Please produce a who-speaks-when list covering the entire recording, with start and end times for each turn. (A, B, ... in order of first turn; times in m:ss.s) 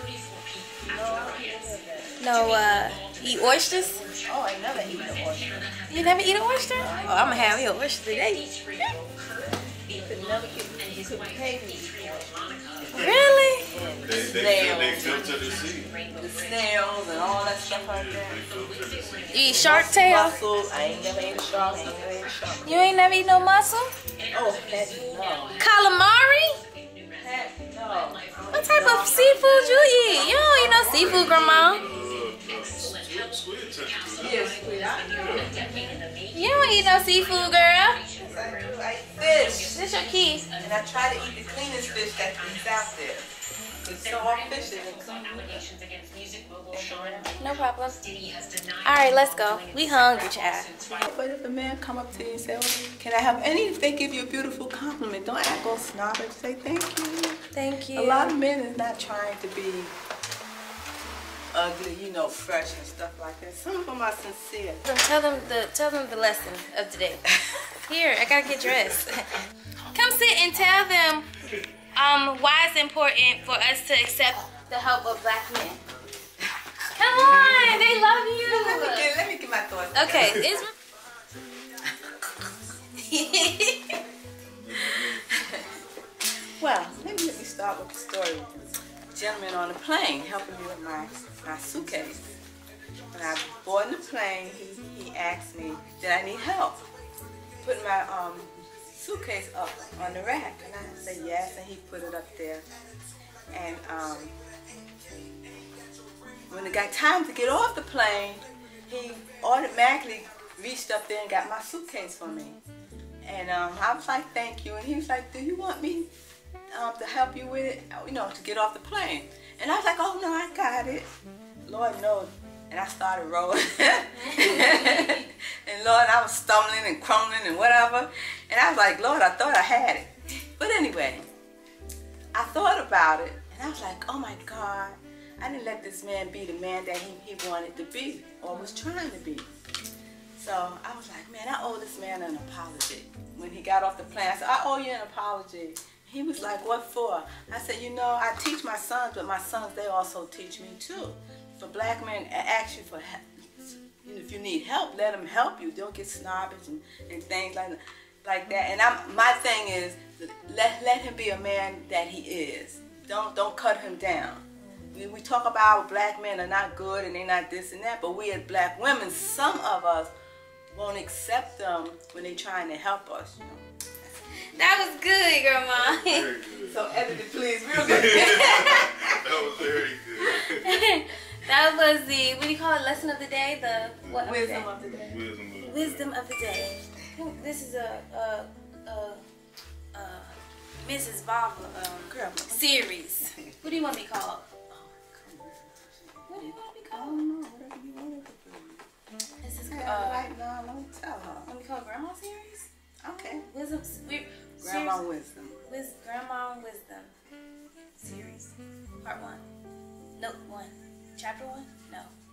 0:00.8-0:02.2 A
0:02.2-0:04.0 B
0:04.2-0:05.8 A
0:05.9-0:08.5 B
0:06.7-0:07.7 A
0:08.7-0:12.6 A
0:12.8-0:13.2 C
0:13.0-0:13.7 B
0:13.6-0:15.4 A
0:14.0-0:16.0 C
0:16.1-0:18.6 A
0:17.8-0:19.8 C
0:19.3-0:20.4 B
0:19.5-0:23.0 A
0:22.6-0:23.9 B
0:24.3-0:25.6 A
0:25.6-0:26.6 B
0:27.1-0:30.8 A
0:28.5-0:31.8 B
0:30.4-0:35.7 C
0:34.2-0:36.1 A
0:36.3-0:38.0 B
0:38.1-0:39.8 A
0:39.5-0:40.5 B
0:40.6-0:43.3 A
0:43.8-0:45.8 A
0:46.6-0:47.4 A
0:47.4-0:48.2 B
0:48.8-0:51.0 B
0:51.0-0:59.9 A
0:57.5-0:58.3 B
1:01.5-1:04.8 A
1:04.8-1:11.3 B
1:11.9-1:15.8 B
1:16.9-1:19.1 B
1:17.1-1:17.9 C
1:18.4-1:20.5 A
1:19.9-1:20.7 B
1:21.8-1:22.1 A
1:23.0-1:24.0 B
1:24.6-1:25.4 C
1:25.0-1:25.6 A
1:26.6-1:26.9 B
1:26.8-1:32.4 A
1:33.1-1:36.8 A
1:37.6-1:42.6 A
1:43.5-1:44.4 A
1:46.5-1:52.6 A
1:53.2-1:56.1 A
1:56.7-2:01.1 A
2:01.6-2:11.3 A
2:04.2-2:05.2 B
2:12.3-2:19.5 A
2:20.4-2:50.1 A
2:50.7-2:53.6 A
2:54.5-2:56.3 B
2:55.8-2:56.8 C
2:56.6-2:59.6 A
2:57.8-3:00.8 C
2:58.2-2:58.9 B
3:00.2-3:04.7 B
3:04.2-3:05.2 A
3:04.8-3:06.1 C
3:05.6-3:09.2 B
3:09.9-3:14.4 B
3:12.1-3:13.5 A
3:14.7-3:18.9 A
3:16.3-3:17.2 B
3:19.4-3:20.3 B
3:19.7-3:21.5 A
3:21.4-3:22.7 B
3:23.0-3:23.5 A
3:23.4-3:25.0 B
3:24.6-3:25.6 A
3:25.7-3:27.1 B
3:28.0-3:29.4 B
3:30.2-3:32.1 B